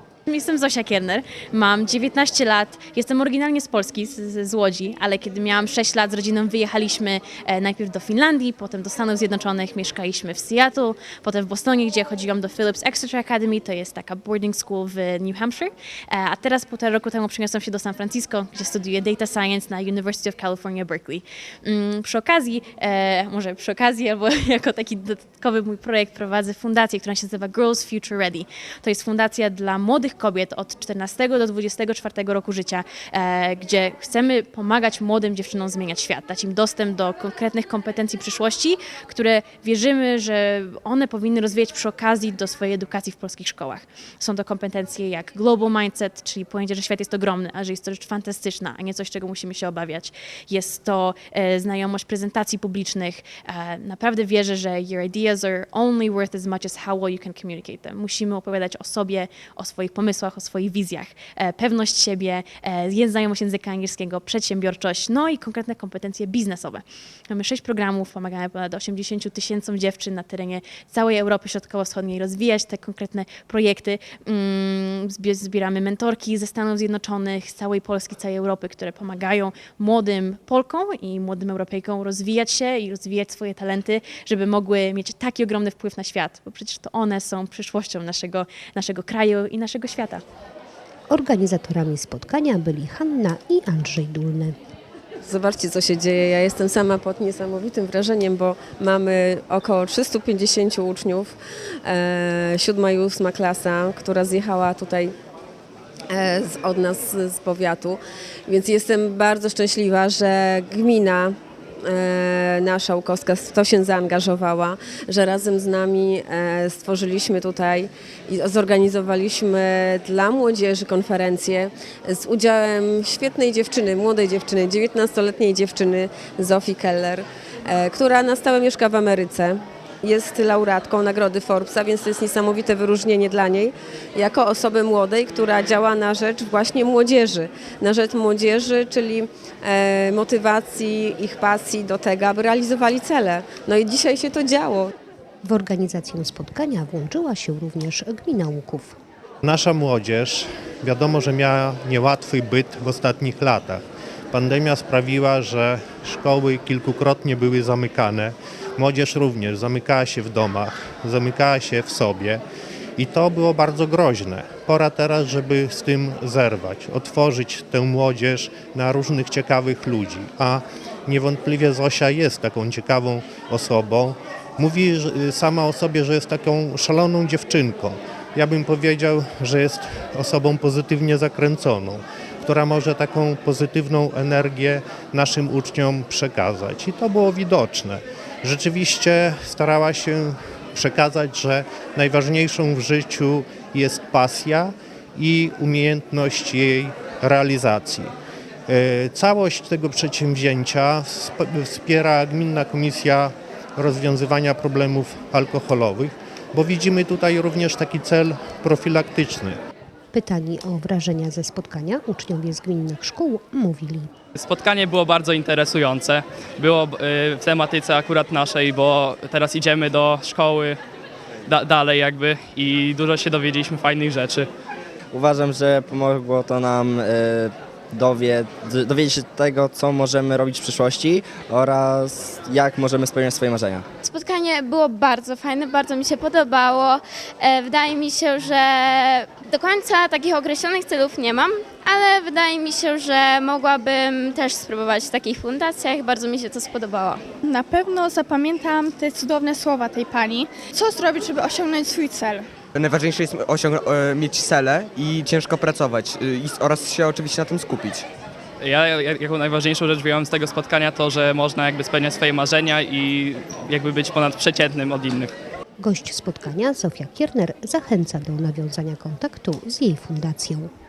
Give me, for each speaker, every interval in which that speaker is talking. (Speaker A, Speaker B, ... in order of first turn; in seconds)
Speaker A: 0.3-90.2
Speaker B: 91.1-94.5, 145.4-148.9, 210.1-214.1, 265.8-270.7
Speaker C: 95.2-105.1, 106.1-144.9
Speaker D: 149.4-162.4, 163.0-198.1, 198.7-209.6
Speaker E: 214.3-220.8, 221.5-224.5, 258.6-265.3
Speaker F: 225.1-233.8
Speaker G: 234.0-247.2
Speaker H: 247.4-252.4
Speaker I: 252.7-258.1